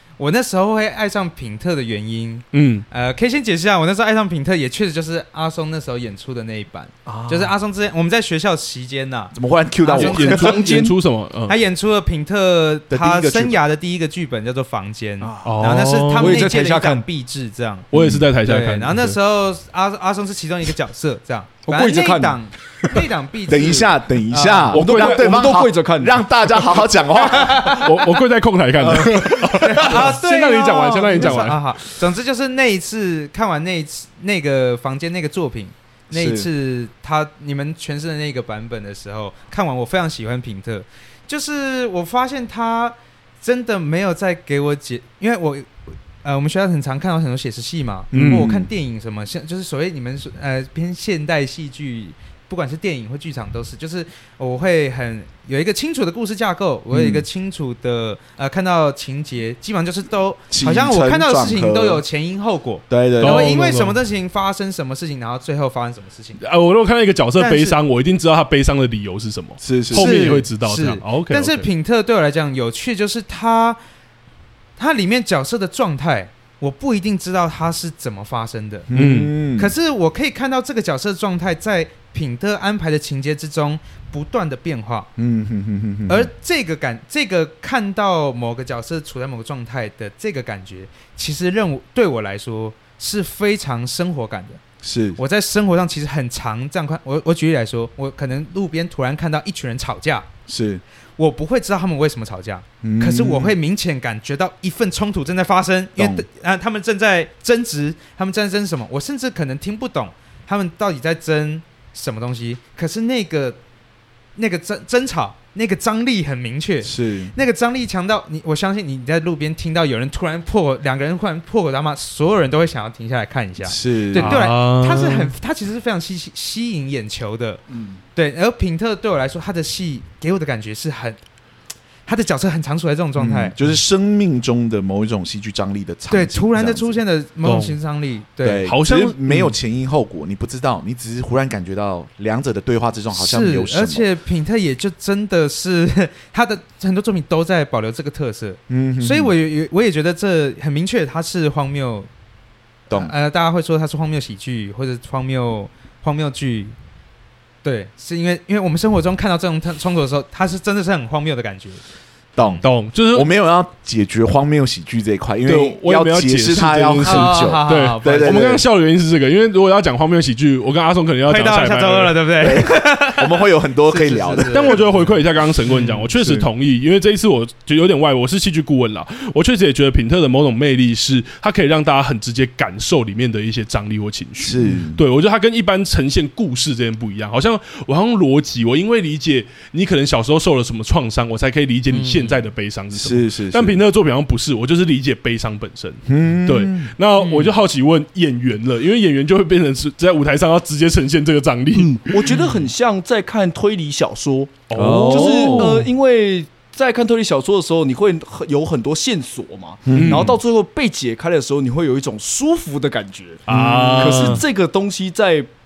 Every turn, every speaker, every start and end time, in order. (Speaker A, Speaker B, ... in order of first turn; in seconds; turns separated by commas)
Speaker A: 0.2-10.9, Speaker B: 2.5-2.8, Speaker C: 7.0-7.5, Speaker D: 9.3-10.6, Speaker B: 9.9-11.6, Speaker C: 10.3-10.8, Speaker A: 11.5-17.9, Speaker D: 12.9-13.6, Speaker C: 15.2-15.5, Speaker B: 15.4-16.4, Speaker C: 16.1-17.0, Speaker B: 17.9-19.1, Speaker D: 17.9-18.3, Speaker A: 18.4-24.7, Speaker C: 21.6-22.4, Speaker D: 23.5-27.9, Speaker B: 24.7-25.3, Speaker C: 24.7-26.6, Speaker A: 27.3-27.8, Speaker B: 27.5-31.6, Speaker D: 28.8-30.0, Speaker A: 29.6-45.7, Speaker D: 36.1-36.5, Speaker A: 46.2-66.4, Speaker D: 48.1-48.7, Speaker B: 48.1-48.5, Speaker D: 56.9-57.2, Speaker D: 60.5-62.0, Speaker D: 62.9-63.5, Speaker B: 63.2-64.0, Speaker B: 66.4-71.6, Speaker A: 67.4-67.8, Speaker D: 69.6-70.3, Speaker A: 69.9-73.8, Speaker A: 74.8-78.9, Speaker D: 78.9-79.7, Speaker B: 78.9-79.3, Speaker A: 79.6-85.1, Speaker D: 85.2-86.3, Speaker A: 86.1-94.6, Speaker D: 94.8-95.2, Speaker A: 95.2-100.3, Speaker D: 100.5-100.8, Speaker A: 101.2-113.6, Speaker D: 102.8-103.5, Speaker D: 106.0-106.2, Speaker A: 114.3-127.6, Speaker D: 116.8-117.3, Speaker D: 123.6-124.4, Speaker B: 124.1-125.3, Speaker C: 127.7-128.0, Speaker A: 128.1-131.2, Speaker A: 132.1-133.5, Speaker D: 133.2-137.0, Speaker A: 136.1-138.6, Speaker B: 137.4-137.8, Speaker D: 138.4-144.0, Speaker B: 138.7-139.2, Speaker A: 143.1-152.1, Speaker D: 148.7-149.3, Speaker A: 152.9-156.7, Speaker A: 157.6-161.8, Speaker D: 162.3-168.6, Speaker A: 162.4-162.6, Speaker B: 162.6-163.3, Speaker B: 165.4-172.2, Speaker A: 167.0-168.5, Speaker A: 171.3-174.8, Speaker D: 172.4-174.9, Speaker B: 174.5-202.4, Speaker D: 176.1-176.5, Speaker D: 184.4-185.0, Speaker A: 191.9-192.4, Speaker D: 192.9-193.8, Speaker D: 196.1-196.9, Speaker A: 197.2-197.5, Speaker C: 201.7-213.4, Speaker B: 204.7-205.8, Speaker D: 204.7-205.9, Speaker D: 209.8-210.4, Speaker B: 209.9-210.3, Speaker B: 213.5-214.4, Speaker D: 213.5-214.4, Speaker C: 214.0-215.5